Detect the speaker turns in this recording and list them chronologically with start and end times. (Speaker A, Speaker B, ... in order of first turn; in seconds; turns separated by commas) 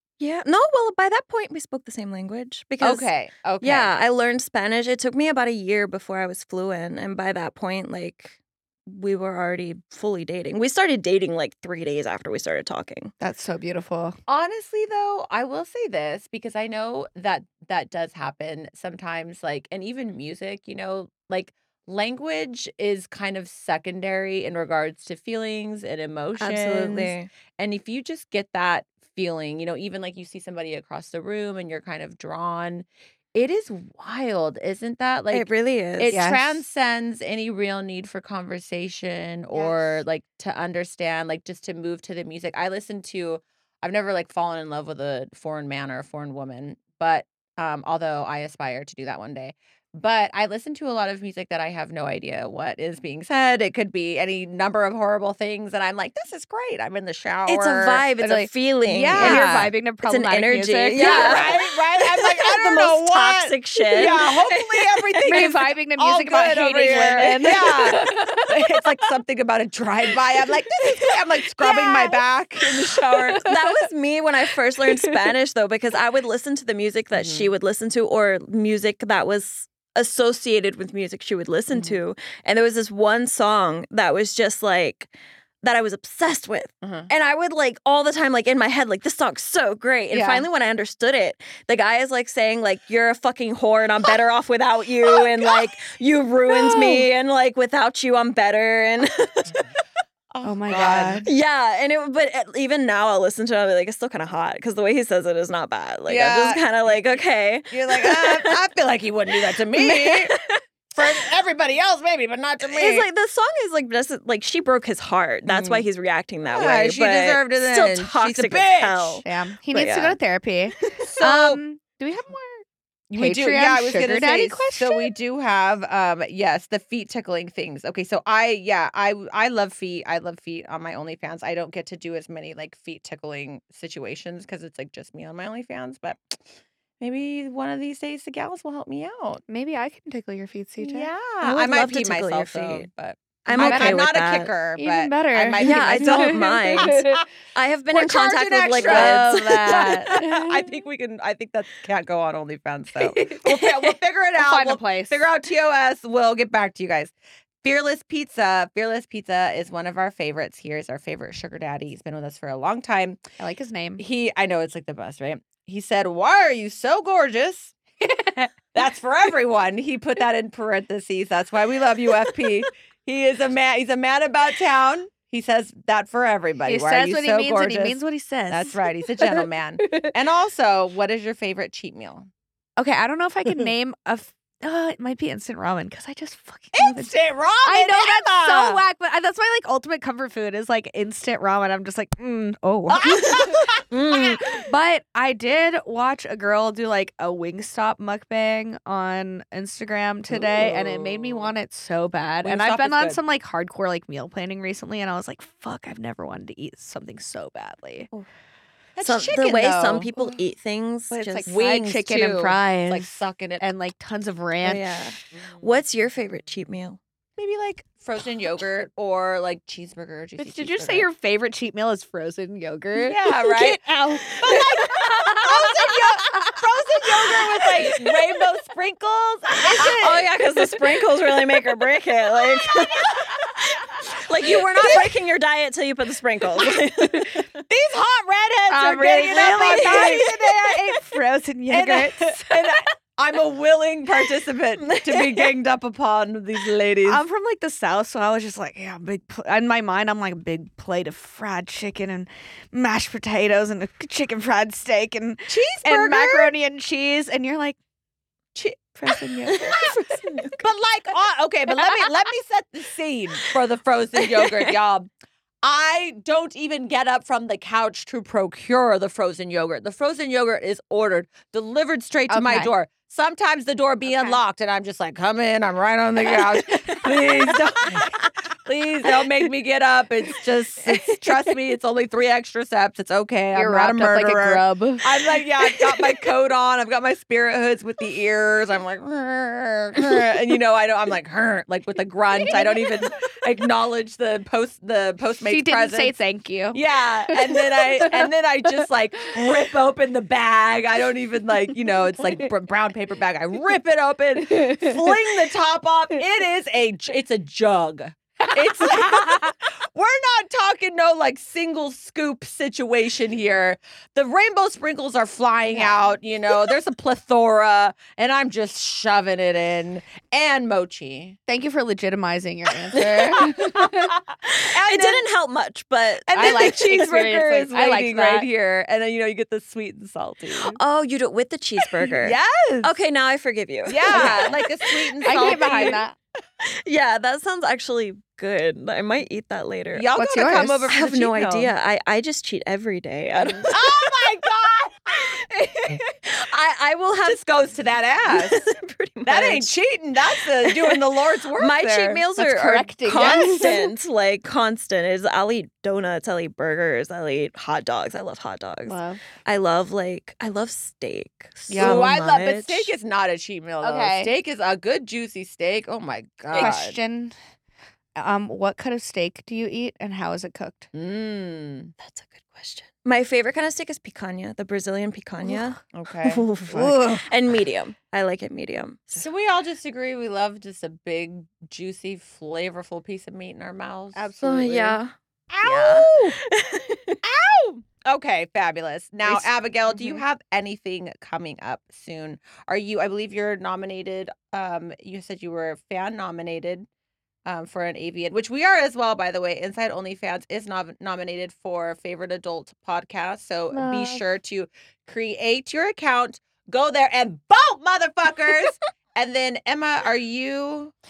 Speaker A: 0.2-3.1, Speaker B: 2.8-3.9, Speaker A: 3.6-13.1, Speaker C: 13.2-14.2, Speaker B: 14.3-35.5, Speaker A: 26.4-27.3, Speaker A: 35.3-36.2, Speaker B: 36.0-58.1, Speaker C: 36.1-36.6, Speaker C: 39.5-40.0, Speaker A: 57.5-65.6, Speaker C: 58.2-58.5, Speaker B: 58.8-59.7, Speaker C: 59.1-61.5, Speaker B: 60.9-73.4, Speaker C: 63.9-64.1, Speaker C: 65.3-68.5, Speaker C: 71.0-73.8, Speaker A: 73.4-85.1, Speaker B: 77.1-77.5, Speaker B: 81.7-82.0, Speaker A: 85.6-99.5, Speaker B: 86.8-87.1, Speaker C: 90.1-90.4, Speaker B: 95.0-95.7, Speaker B: 96.6-97.0, Speaker B: 100.3-101.2, Speaker C: 100.4-101.3, Speaker A: 100.8-108.6, Speaker B: 106.1-110.3, Speaker A: 109.4-111.2, Speaker B: 110.9-113.0, Speaker A: 112.6-120.2, Speaker B: 115.5-115.8, Speaker B: 116.5-119.2, Speaker C: 119.2-125.1, Speaker B: 121.0-121.6, Speaker B: 123.1-136.2, Speaker B: 137.0-139.4, Speaker C: 139.5-141.1, Speaker B: 140.8-147.2, Speaker A: 141.4-142.9, Speaker A: 143.4-144.5, Speaker C: 143.5-144.0, Speaker C: 144.8-147.2, Speaker A: 145.6-150.1, Speaker B: 147.9-163.2, Speaker C: 148.8-150.6, Speaker C: 153.0-153.6, Speaker C: 154.4-155.2, Speaker C: 163.4-164.0, Speaker B: 164.0-167.7, Speaker C: 168.0-168.5, Speaker B: 168.7-182.3, Speaker C: 176.7-180.1, Speaker C: 182.8-208.1, Speaker B: 186.7-188.8, Speaker B: 192.9-194.5, Speaker A: 193.9-194.4, Speaker B: 200.3-201.5, Speaker B: 202.4-203.2, Speaker B: 208.9-210.3, Speaker A: 209.0-211.5, Speaker C: 211.1-213.1, Speaker B: 211.4-213.7, Speaker C: 213.6-215.1, Speaker A: 214.6-217.0, Speaker B: 217.4-221.1, Speaker C: 220.4-228.0, Speaker B: 223.0-223.8, Speaker B: 224.4-230.3, Speaker A: 229.8-237.5, Speaker B: 232.7-233.3, Speaker B: 234.4-235.1, Speaker B: 237.7-240.9, Speaker C: 238.7-242.9, Speaker A: 239.3-240.3, Speaker B: 241.7-247.2, Speaker A: 244.8-245.5, Speaker C: 247.0-257.8, Speaker B: 255.5-256.5, Speaker B: 258.5-265.1, Speaker A: 259.5-260.6, Speaker B: 265.6-296.1, Speaker C: 272.3-272.7, Speaker C: 274.1-274.4, Speaker C: 276.4-277.3, Speaker C: 283.5-285.1, Speaker C: 295.4-298.3, Speaker B: 296.7-321.4, Speaker C: 304.5-305.0, Speaker C: 308.4-309.5, Speaker C: 315.7-316.1, Speaker C: 321.5-324.1, Speaker A: 323.3-323.7, Speaker B: 323.3-325.2, Speaker A: 324.5-327.1, Speaker B: 326.3-330.8, Speaker C: 326.3-328.5, Speaker A: 330.7-336.0, Speaker B: 332.2-332.9, Speaker B: 333.9-336.0, Speaker C: 334.1-334.4, Speaker C: 335.2-336.1, Speaker A: 336.8-340.1, Speaker B: 339.9-341.7, Speaker C: 340.1-340.9, Speaker A: 340.9-344.2, Speaker B: 343.6-345.4, Speaker A: 345.3-347.4, Speaker B: 347.2-348.6, Speaker A: 348.3-349.7, Speaker B: 349.2-352.2, Speaker A: 350.4-351.0, Speaker A: 351.5-362.9, Speaker C: 352.4-353.9, Speaker B: 353.1-353.7, Speaker C: 358.9-359.2, Speaker C: 361.7-362.1, Speaker B: 361.7-367.0, Speaker C: 363.8-364.3, Speaker A: 366.5-366.8, Speaker C: 366.5-367.3, Speaker C: 368.2-370.9, Speaker B: 370.9-371.9, Speaker A: 372.0-379.2, Speaker B: 375.9-376.9, Speaker C: 376.7-377.2, Speaker B: 379.1-384.3, Speaker C: 384.1-385.0, Speaker A: 384.4-385.1, Speaker B: 385.5-386.4, Speaker A: 385.6-387.2, Speaker B: 387.2-396.9, Speaker C: 389.2-390.2, Speaker B: 397.4-410.9, Speaker C: 403.7-404.2